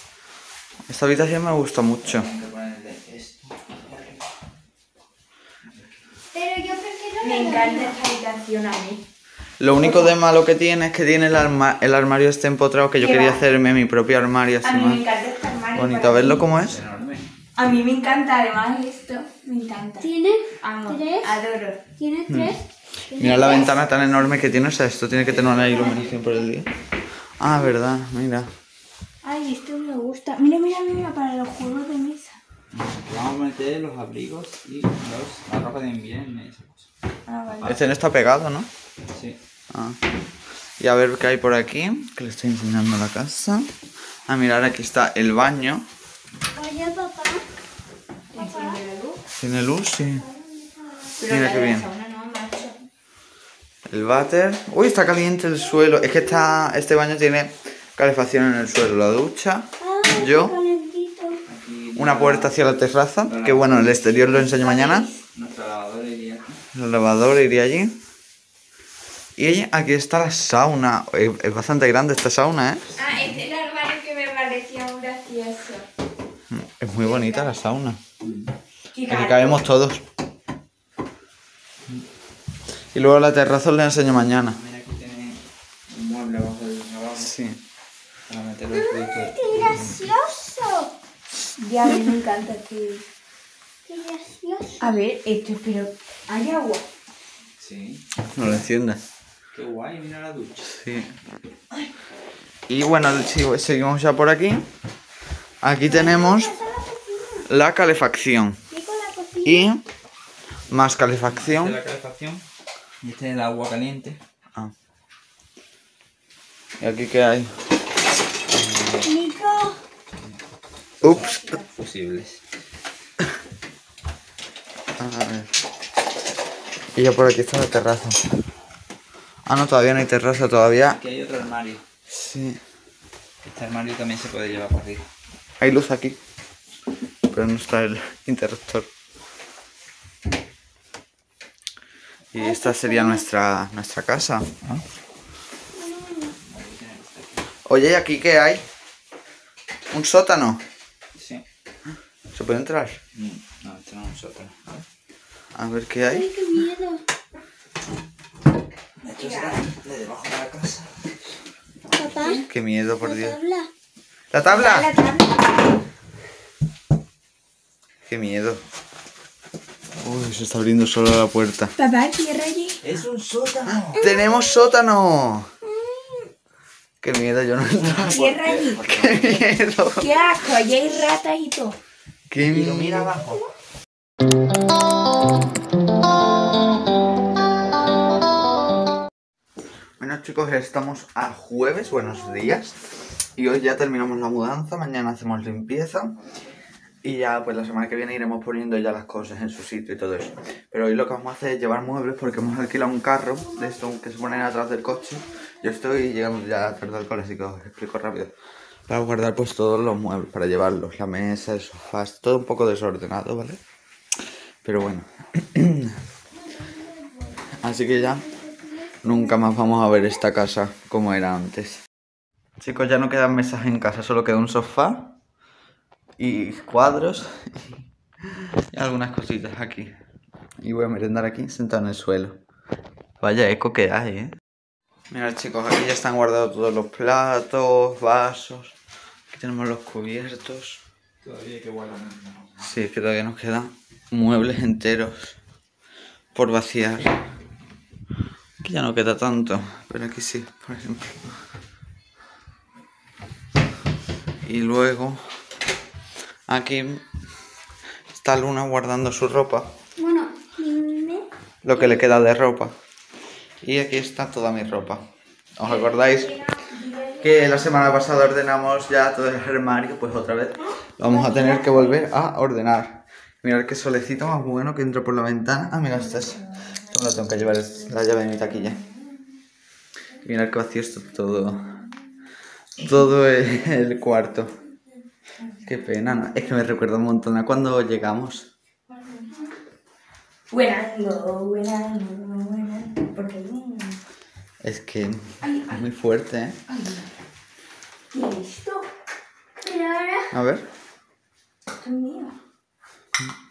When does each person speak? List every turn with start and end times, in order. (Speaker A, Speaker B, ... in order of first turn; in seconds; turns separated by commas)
Speaker A: 0.9-2.3, Speaker B: 2.0-4.2, Speaker B: 5.7-6.0, Speaker C: 6.3-8.0, Speaker D: 7.2-9.0, Speaker A: 9.6-15.0, Speaker D: 9.8-10.1, Speaker D: 13.0-13.4, Speaker D: 14.6-16.4, Speaker A: 15.7-16.8, Speaker B: 16.4-17.3, Speaker D: 17.6-20.1, Speaker C: 20.0-21.4, Speaker D: 20.6-21.8, Speaker C: 21.9-23.9, Speaker A: 22.3-22.6, Speaker A: 23.1-26.7, Speaker B: 25.1-26.2, Speaker A: 27.4-28.5, Speaker D: 29.2-32.4, Speaker B: 32.7-36.9, Speaker D: 37.3-37.9, Speaker A: 37.6-38.7, Speaker B: 39.1-39.4, Speaker A: 39.7-40.0, Speaker A: 40.8-43.7, Speaker A: 44.3-45.9, Speaker C: 46.5-47.4, Speaker D: 48.3-49.2, Speaker C: 48.3-48.8, Speaker A: 49.3-50.2, Speaker C: 50.1-51.1, Speaker D: 51.1-52.9, Speaker A: 51.2-51.9, Speaker A: 53.9-60.6, Speaker C: 59.8-61.4, Speaker B: 61.5-62.6, Speaker A: 61.9-65.1, Speaker B: 63.2-64.5, Speaker D: 64.4-65.1, Speaker B: 65.3-66.6, Speaker A: 66.7-68.0, Speaker A: 69.4-73.0, Speaker D: 73.0-75.9, Speaker A: 76.5-78.0, Speaker D: 77.0-77.6, Speaker B: 78.2-78.5, Speaker D: 78.9-79.6, Speaker A: 79.1-80.0, Speaker A: 82.9-84.6, Speaker B: 84.3-87.3, Speaker A: 87.2-87.6, Speaker B: 88.3-90.1, Speaker C: 88.7-90.9, Speaker D: 91.6-93.0, Speaker C: 93.8-94.9, Speaker D: 94.8-96.8, Speaker B: 97.6-98.0, Speaker A: 98.2-99.0, Speaker B: 99.5-100.7, Speaker A: 100.7-101.1, Speaker A: 102.7-104.7, Speaker A: 105.6-106.5, Speaker C: 105.8-107.5, Speaker A: 107.5-108.6, Speaker C: 108.7-109.7, Speaker A: 109.4-109.8, Speaker A: 110.7-111.8, Speaker B: 111.2-112.4, Speaker B: 113.0-114.2, Speaker A: 116.8-117.5, Speaker C: 119.0-119.8, Speaker B: 121.0-122.4, Speaker A: 121.0-121.3, Speaker A: 125.0-125.5, Speaker A: 127.0-128.3, Speaker A: 129.5-131.0, Speaker B: 130.9-131.8, Speaker A: 132.1-132.6, Speaker B: 133.4-135.0, Speaker A: 135.6-136.2, Speaker A: 137.3-138.9, Speaker A: 142.3-144.5, Speaker C: 142.3-143.2, Speaker C: 145.7-146.3, Speaker B: 146.4-147.5, Speaker A: 147.7-148.6, Speaker A: 149.9-150.6, Speaker B: 151.1-151.4, Speaker A: 152.3-153.0, Speaker B: 153.1-154.8, Speaker A: 155.5-156.5, Speaker C: 156.1-157.0, Speaker B: 159.0-161.2, Speaker D: 159.2-159.6, Speaker C: 161.9-162.4, Speaker A: 162.4-163.4, Speaker C: 163.0-163.7, Speaker A: 164.3-164.9, Speaker D: 164.4-165.7, Speaker A: 168.1-168.6, Speaker A: 170.0-171.7, Speaker D: 171.8-172.8, Speaker B: 172.8-174.1, Speaker A: 173.8-175.5, Speaker C: 174.0-174.3, Speaker C: 175.8-176.2, Speaker A: 177.0-180.1, Speaker B: 177.7-179.4, Speaker D: 178.0-179.2, Speaker D: 180.0-181.8, Speaker A: 182.3-183.1, Speaker B: 182.4-183.4, Speaker A: 190.0-192.8, Speaker A: 193.3-196.1, Speaker A: 197.0-208.3, Speaker A: 208.9-213.6, Speaker A: 214.6-216.0, Speaker C: 217.2-219.1, Speaker A: 217.6-218.3, Speaker A: 219.0-221.8, Speaker A: 222.6-225.1, Speaker A: 226.2-229.9, Speaker A: 230.6-232.4, Speaker A: 233.2-234.3, Speaker A: 235.1-238.8, Speaker A: 239.3-240.8, Speaker B: 241.2-242.5, Speaker A: 242.6-245.3, Speaker A: 246.3-247.2, Speaker A: 248.6-251.2, Speaker A: 254.4-255.2, Speaker A: 256.5-257.0, Speaker A: 258.1-259.7, Speaker C: 260.0-261.2, Speaker A: 261.6-262.7, Speaker A: 263.6-265.0, Speaker A: 265.6-266.4, Speaker D: 265.6-268.0, Speaker A: 267.2-278.8, Speaker D: 271.1-271.9, Speaker A: 280.2-281.8, Speaker A: 282.8-284.6, Speaker A: 285.6-288.5, Speaker D: 288.9-289.5, Speaker D: 290.5-294.0, Speaker A: 294.6-296.6, Speaker D: 295.4-295.8, Speaker D: 296.7-297.1, Speaker D: 298.1-298.9, Speaker C: 299.6-300.2, Speaker A: 300.3-300.6, Speaker D: 301.7-302.4